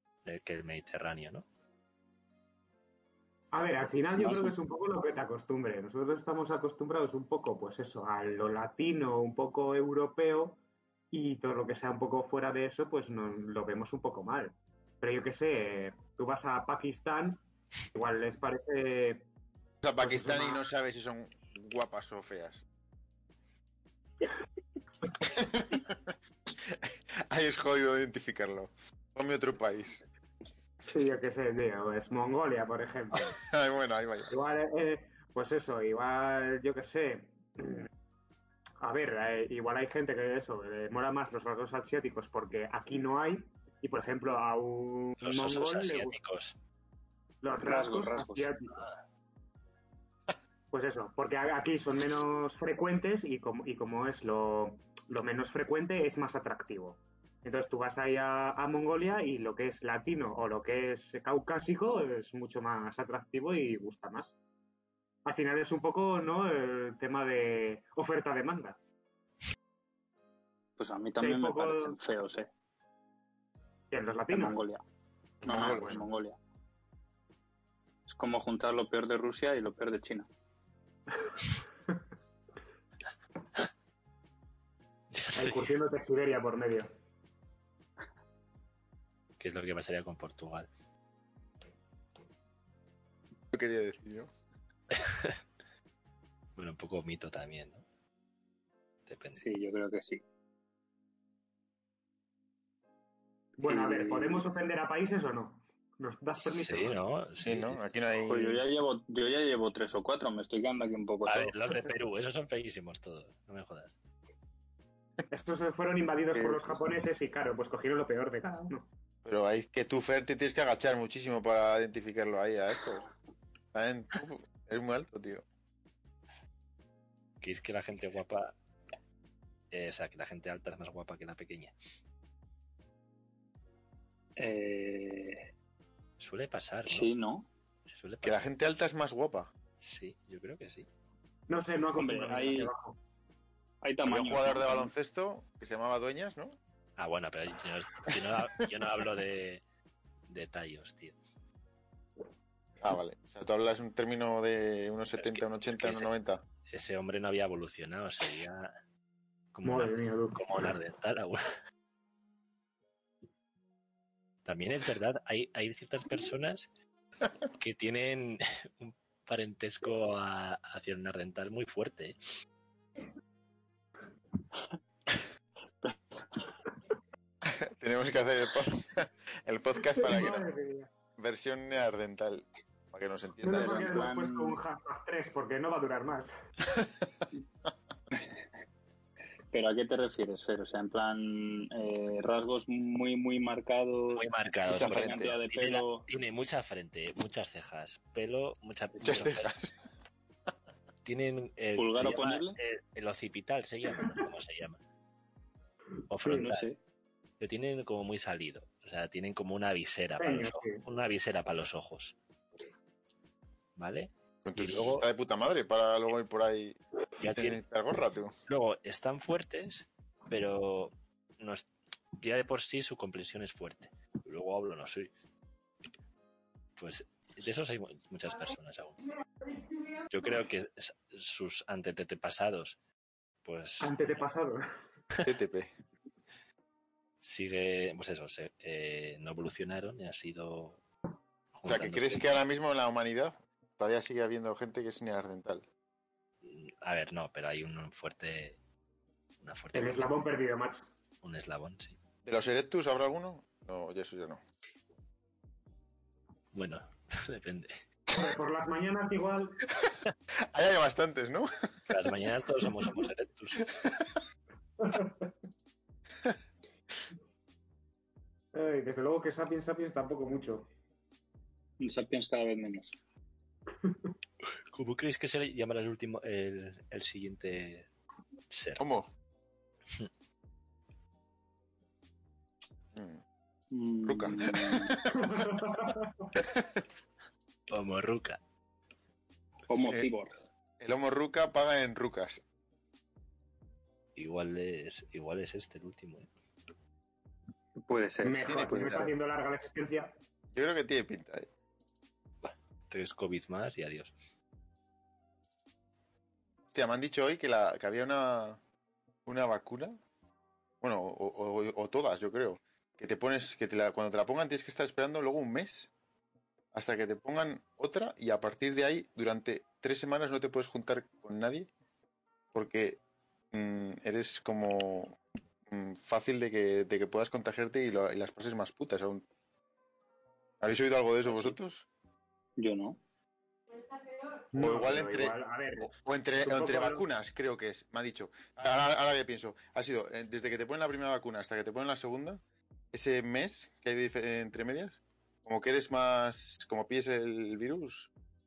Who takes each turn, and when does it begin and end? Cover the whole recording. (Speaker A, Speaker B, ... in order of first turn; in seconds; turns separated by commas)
Speaker A: 0.2-1.5, Speaker B: 3.5-10.6, Speaker B: 11.1-17.4, Speaker B: 17.9-19.3, Speaker C: 19.8-22.6, Speaker B: 20.0-20.6, Speaker C: 25.2-30.0, Speaker B: 30.9-33.4, Speaker C: 33.1-34.3, Speaker B: 34.3-37.9, Speaker B: 38.8-46.2, Speaker A: 45.2-46.5, Speaker B: 47.4-48.8, Speaker D: 47.6-48.5, Speaker B: 50.7-64.3, Speaker B: 65.2-68.8, Speaker D: 70.8-72.5, Speaker B: 71.2-72.0, Speaker B: 73.9-74.6, Speaker D: 74.3-74.8, Speaker C: 75.4-76.0, Speaker D: 75.4-76.4, Speaker B: 75.4-76.0, Speaker D: 78.1-80.3, Speaker A: 85.1-85.7, Speaker B: 85.3-86.9, Speaker A: 89.4-90.7, Speaker C: 93.5-94.3, Speaker A: 94.9-95.4, Speaker A: 96.6-97.8, Speaker A: 99.1-99.4, Speaker D: 99.4-100.2, Speaker B: 103.6-107.0, Speaker D: 103.6-104.5, Speaker A: 106.4-107.8, Speaker C: 107.4-108.6, Speaker D: 108.2-111.6, Speaker A: 111.3-113.9, Speaker B: 115.3-118.9, Speaker D: 116.3-116.8, Speaker C: 119.2-123.1, Speaker C: 123.7-125.4, Speaker A: 127.4-128.5, Speaker A: 129.7-131.8, Speaker D: 134.4-135.5, Speaker A: 136.2-137.1, Speaker D: 136.9-137.5, Speaker A: 137.9-138.5, Speaker C: 138.2-139.5, Speaker A: 139.8-140.9, Speaker B: 141.5-143.0, Speaker D: 142.0-142.7, Speaker D: 143.8-144.9, Speaker C: 144.0-146.6, Speaker A: 147.0-149.6, Speaker C: 148.1-148.7, Speaker A: 150.3-151.2, Speaker C: 152.8-156.4, Speaker A: 155.2-156.1, Speaker A: 156.7-158.8, Speaker A: 159.5-161.4, Speaker B: 159.6-160.4, Speaker A: 164.4-166.7, Speaker A: 167.6-172.4, Speaker D: 175.8-176.5, Speaker C: 177.4-180.5, Speaker B: 179.9-180.9, Speaker C: 181.2-184.0, Speaker B: 183.4-186.3, Speaker D: 183.5-184.6, Speaker D: 189.5-196.1, Speaker A: 194.1-199.6, Speaker C: 194.7-195.3, Speaker C: 199.0-199.7, Speaker A: 201.1-204.8, Speaker D: 201.8-202.6, Speaker A: 206.1-206.7, Speaker B: 206.1-206.5, Speaker D: 206.3-206.8, Speaker A: 207.4-212.2, Speaker B: 210.2-210.8, Speaker A: 213.8-215.1, Speaker C: 214.4-216.8, Speaker A: 217.2-217.6, Speaker C: 217.3-218.3, Speaker A: 218.5-221.7, Speaker A: 222.2-225.1, Speaker A: 226.8-229.0, Speaker A: 230.1-232.8, Speaker A: 233.4-233.9, Speaker B: 233.8-234.7, Speaker C: 235.2-235.7, Speaker A: 237.2-240.8, Speaker A: 241.6-242.4, Speaker C: 241.7-245.7, Speaker A: 246.4-248.6, Speaker A: 249.4-250.2, Speaker B: 249.7-250.8, Speaker A: 251.2-252.0, Speaker C: 252.2-254.4, Speaker A: 256.5-257.8, Speaker B: 258.1-259.7, Speaker C: 260.5-261.9, Speaker A: 261.9-263.9, Speaker C: 263.6-264.1, Speaker B: 264.8-265.2, Speaker B: 268.5-270.7, Speaker D: 271.8-273.0, Speaker A: 274.7-277.9, Speaker A: 278.5-278.9, Speaker C: 278.8-279.1, Speaker C: 282.9-283.2, Speaker D: 283.7-285.0, Speaker C: 284.1-285.5, Speaker B: 285.1-286.3, Speaker C: 286.4-286.8, Speaker A: 287.7-288.4, Speaker D: 289.7-290.4, Speaker C: 289.8-290.1, Speaker C: 290.8-292.4, Speaker A: 294.2-296.3, Speaker D: 297.9-299.1, Speaker B: 298.2-300.1, Speaker C: 298.4-299.1, Speaker C: 300.5-301.5, Speaker A: 302.4-304.1, Speaker C: 306.7-308.6, Speaker C: 309.3-310.0, Speaker C: 310.8-315.9, Speaker C: 316.7-321.7, Speaker C: 322.5-323.0, Speaker C: 323.5-329.2, Speaker C: 330.6-331.9, Speaker D: 331.3-331.5, Speaker D: 332.6-333.0, Speaker B: 334.5-337.0, Speaker C: 334.6-342.4, Speaker C: 342.9-348.1